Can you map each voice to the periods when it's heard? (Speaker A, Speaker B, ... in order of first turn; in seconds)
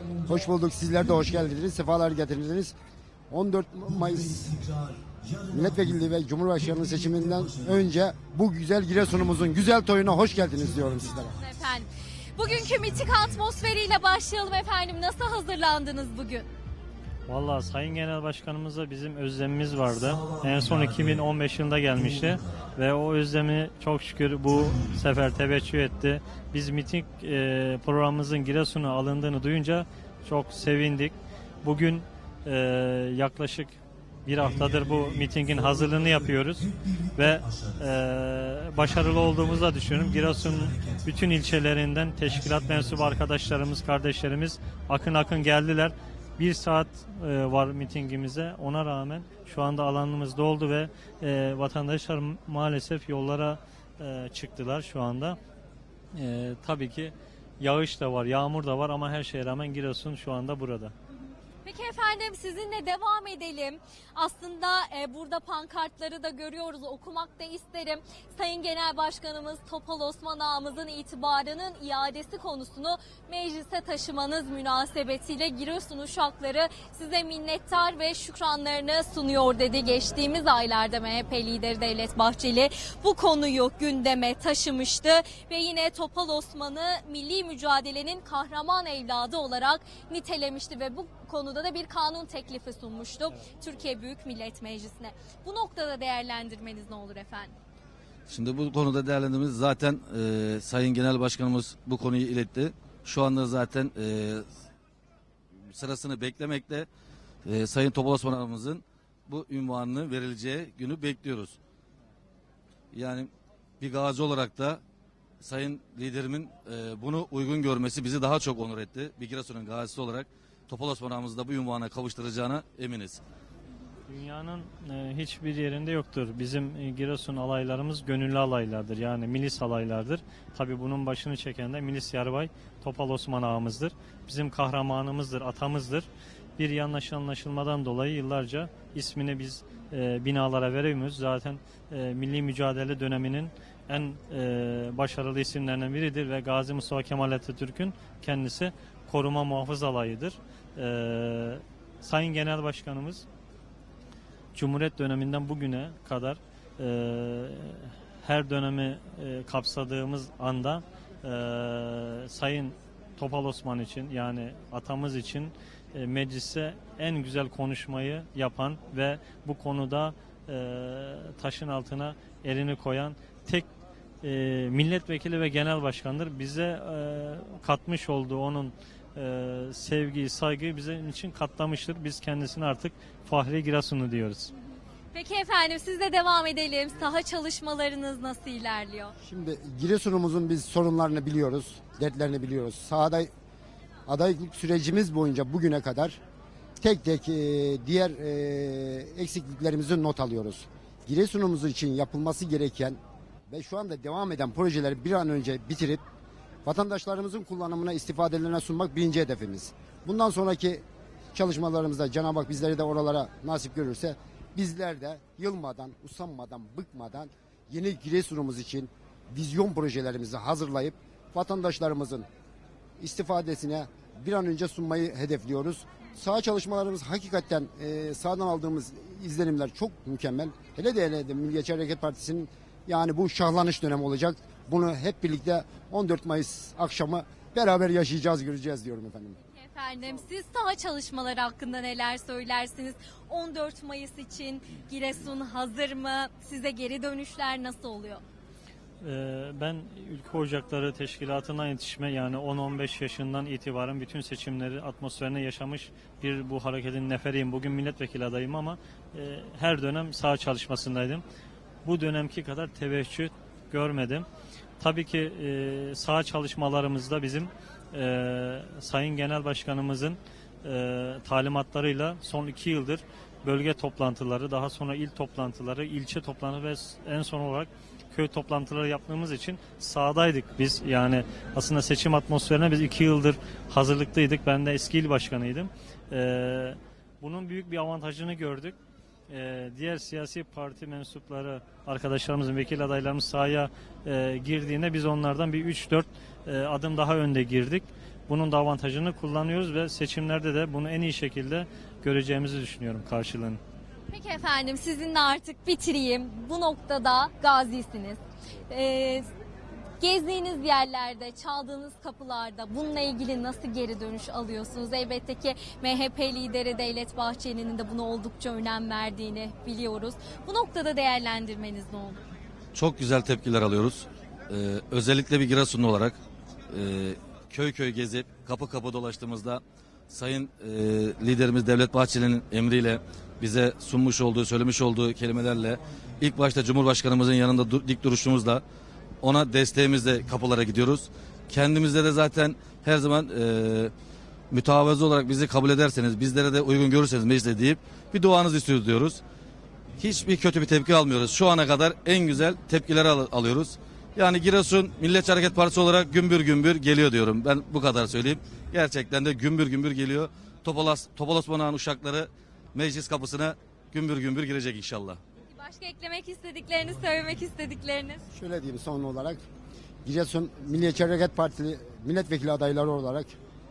Speaker A: 0.2-2.7, 3.3-4.6, 5.5-11.3, 189.2-193.3, 194.1-196.2, 196.8-203.0, 203.5-206.0, 206.6-210.8, 211.3-222.3, 223.0-239.3, 368.3-369.4, 370.0-373.3
Speaker B: 11.4-16.4, 61.6-97.5, 185.1-189.1, 239.4-248.2, 304.1-308.2, 308.7-309.3, 310.0-322.2, 365.5-368.2
Speaker C: 17.3-55.4, 56.1-60.9, 124.1-153.2, 154.5-173.7, 174.2-184.5, 249.0-261.2, 261.8-264.3, 264.8-288.8, 289.3-303.6
Speaker D: 98.3-104.4, 105.6-106.9, 107.5-111.6, 112.9-113.3, 113.8-114.8, 115.4-123.2, 322.7-326.2, 326.7-338.6, 339.2-343.9, 344.5-349.2, 350.0-365.2